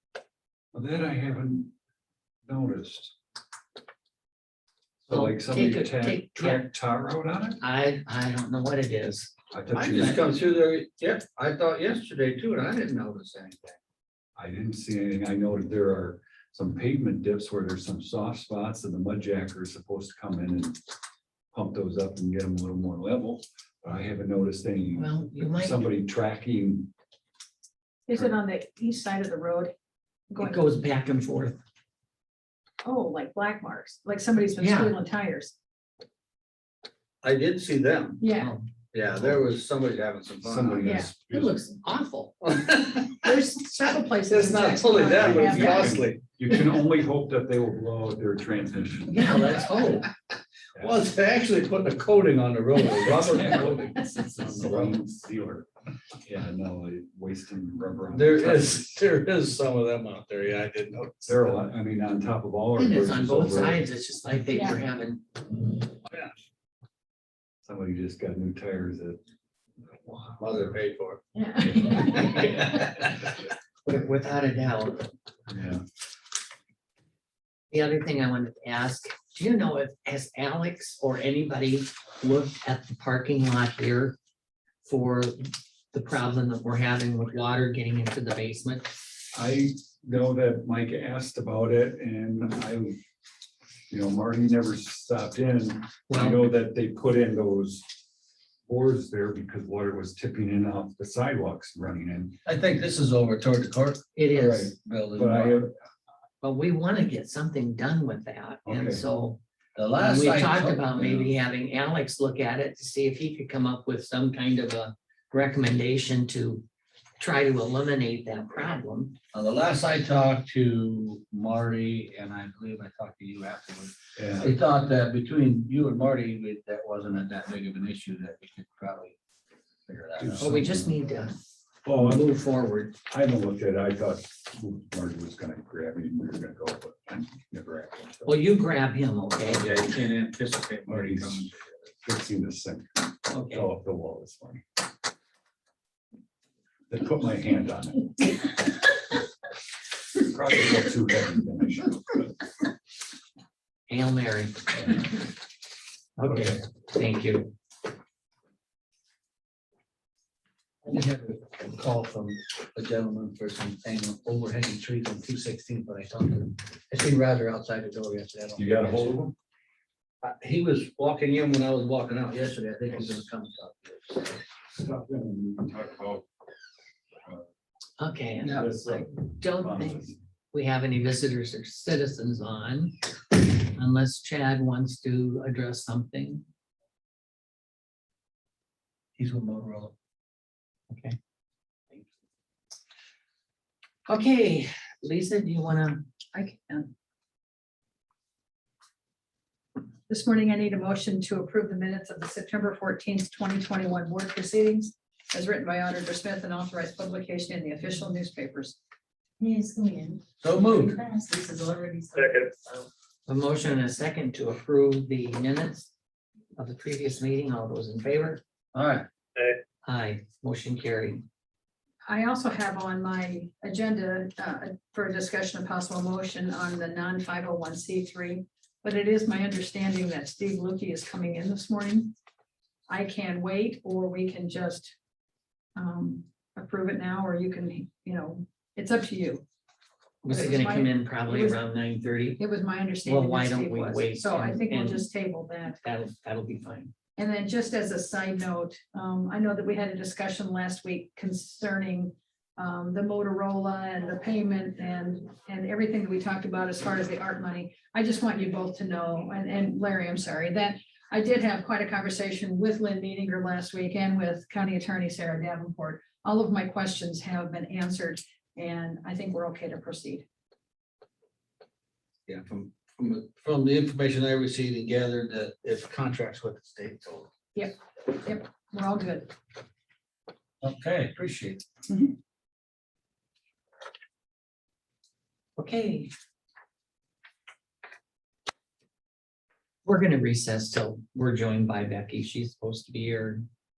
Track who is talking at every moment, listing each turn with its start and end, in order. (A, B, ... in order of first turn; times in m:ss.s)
0:00.7-0:01.7 A
0:02.5-0:03.1 A
0:05.1-0:07.6 A
0:05.1-0:06.6 B
0:07.6-0:09.3 B
0:09.5-0:10.2 A
0:09.7-0:13.8 C
0:14.4-0:20.8 A
0:21.5-0:26.9 A
0:25.0-0:25.8 B
0:28.1-0:29.7 D
0:30.3-0:30.7 D
0:30.4-0:31.6 B
0:32.8-0:35.5 D
0:34.6-0:35.0 B
0:37.2-0:38.2 C
0:38.2-0:38.6 D
0:38.4-0:38.6 B
0:38.9-0:40.9 C
0:40.4-0:41.6 A
0:40.9-0:41.1 D
0:41.3-0:42.4 B
0:42.4-0:43.3 C
0:43.2-0:46.0 D
0:44.3-0:46.2 C
0:44.9-0:49.3 A
0:49.1-0:50.1 B
0:50.8-0:54.9 C
0:52.9-0:55.7 A
0:56.2-0:59.0 A
0:58.1-1:01.5 C
1:01.3-1:03.8 A
1:02.8-1:05.2 B
1:06.1-1:06.3 C
1:07.6-1:09.2 A
1:10.4-1:11.2 C
1:11.4-1:12.3 D
1:11.8-1:13.1 C
1:11.9-1:12.7 B
1:13.8-1:15.1 B
1:15.5-1:15.8 A
1:17.7-1:24.2 B
1:24.8-1:28.9 B
1:29.3-1:33.0 A
1:33.9-1:37.9 A
1:36.1-1:36.5 B
1:38.7-1:42.4 A
1:42.5-1:45.6 C
1:44.2-1:44.7 B
1:44.3-1:45.7 A
1:46.4-1:49.4 B
1:48.7-1:49.0 A
1:49.8-1:51.0 C
1:50.0-1:56.6 B
1:51.0-1:51.3 A
1:57.2-1:59.2 B
1:59.3-2:09.2 C
2:04.2-2:04.5 A
2:09.9-2:10.5 C
2:10.2-2:10.9 A
2:10.4-2:11.4 B
2:11.8-2:12.3 A
2:11.9-2:12.9 B
2:13.1-2:18.3 A
2:18.3-2:19.9 B
2:19.5-2:21.6 C
2:20.9-2:21.5 A
2:22.0-2:24.6 A
2:23.3-2:23.7 B
2:26.9-2:28.4 A
2:30.2-2:32.3 A
2:33.9-2:35.0 B
2:36.2-2:37.5 B
2:40.8-2:49.2 C
2:48.6-2:49.4 A
2:50.2-2:54.4 C
2:54.8-2:56.3 A
2:58.0-3:06.4 B
2:58.5-3:00.2 A
3:09.2-3:09.9 C
3:10.9-3:11.2 B
3:14.1-3:16.0 B
3:16.3-3:16.9 D
3:20.1-3:28.8 D
3:29.4-3:32.9 E
3:30.4-3:31.0 C
3:33.3-3:35.9 B
3:36.6-3:38.4 B
3:38.7-3:39.1 C
3:39.8-3:41.3 B
3:42.1-3:52.1 D
3:52.9-3:55.0 D
3:55.8-3:59.4 D
4:00.2-4:02.4 B
4:00.3-4:01.6 D
4:02.4-4:05.8 D
4:03.0-4:05.1 B
4:05.8-4:06.9 B
4:07.2-4:30.2 D
4:32.3-4:37.3 C
4:37.6-4:39.4 D
4:40.6-4:41.6 C
4:45.6-4:46.1 B
4:49.9-4:53.4 B